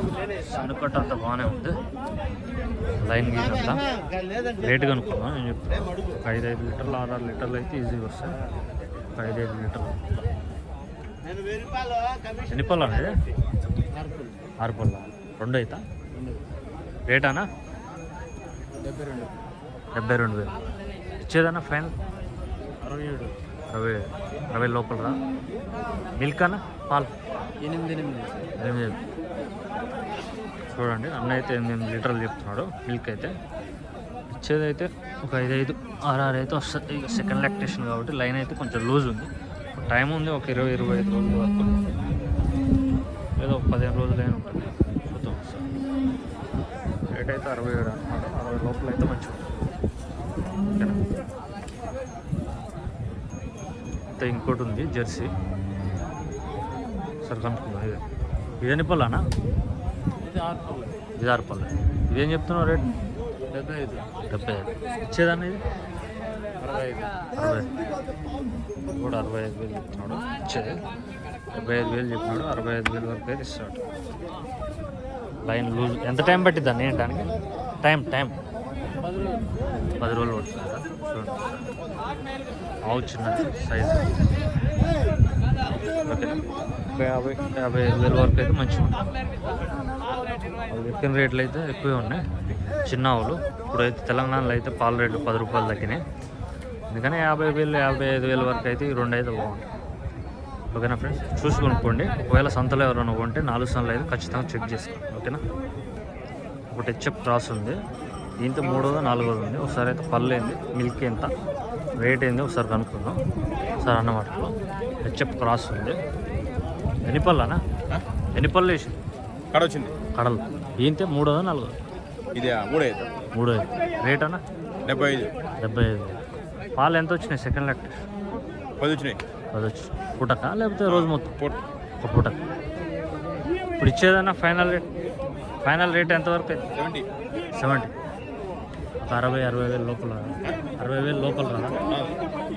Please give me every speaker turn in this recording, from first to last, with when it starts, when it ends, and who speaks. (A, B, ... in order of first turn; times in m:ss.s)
0:00.4-0:01.8 A
0:03.0-0:03.8 A
0:04.6-0:08.4 A
0:09.1-0:10.2 A
0:12.5-0:13.1 A
0:14.6-0:15.8 A
0:17.1-0:17.5 A
0:18.8-0:19.3 B
0:19.9-0:20.6 A
0:21.2-0:21.9 A
0:22.8-0:23.3 B
0:23.7-0:25.2 A
0:26.2-0:27.1 A
0:27.6-0:28.4 B
0:28.6-0:29.0 A
0:30.7-0:33.3 A
0:34.3-0:41.8 A
0:43.4-0:45.7 A
0:47.1-0:49.6 A
0:50.7-0:51.2 A
0:54.2-0:55.3 A
0:57.2-0:58.0 A
0:58.6-0:59.2 A
1:00.3-1:00.9 B
1:01.2-1:02.9 A
1:03.5-1:04.0 B
1:04.3-1:05.6 A
1:06.6-1:07.1 B
1:07.3-1:07.7 A
1:08.9-1:10.8 A
1:11.5-1:13.8 A
1:15.4-1:18.4 A
1:20.0-1:21.7 A
1:22.8-1:24.1 A
1:26.0-1:26.4 A
1:26.9-1:29.0 A
1:30.7-1:32.2 A
1:32.8-1:36.0 A
1:36.9-1:39.6 A
1:40.7-1:45.4 A
1:46.7-1:47.8 A
1:48.4-1:51.3 A
1:52.0-1:53.2 A
1:53.8-1:54.5 A
1:55.0-1:56.0 A
1:57.0-1:57.6 A
1:58.3-1:59.0 A
1:59.5-1:59.9 C
2:00.1-2:01.7 A
2:02.4-2:03.2 C
2:03.3-2:04.4 A
2:04.8-2:05.3 C
2:05.6-2:08.0 A
2:08.8-2:09.2 C
2:09.5-2:11.3 A
2:10.9-2:11.6 C
2:12.0-2:12.4 A
2:13.8-2:14.9 A
2:15.6-2:16.6 A
2:16.8-2:17.1 C
2:17.5-2:17.9 A
2:19.0-2:21.8 A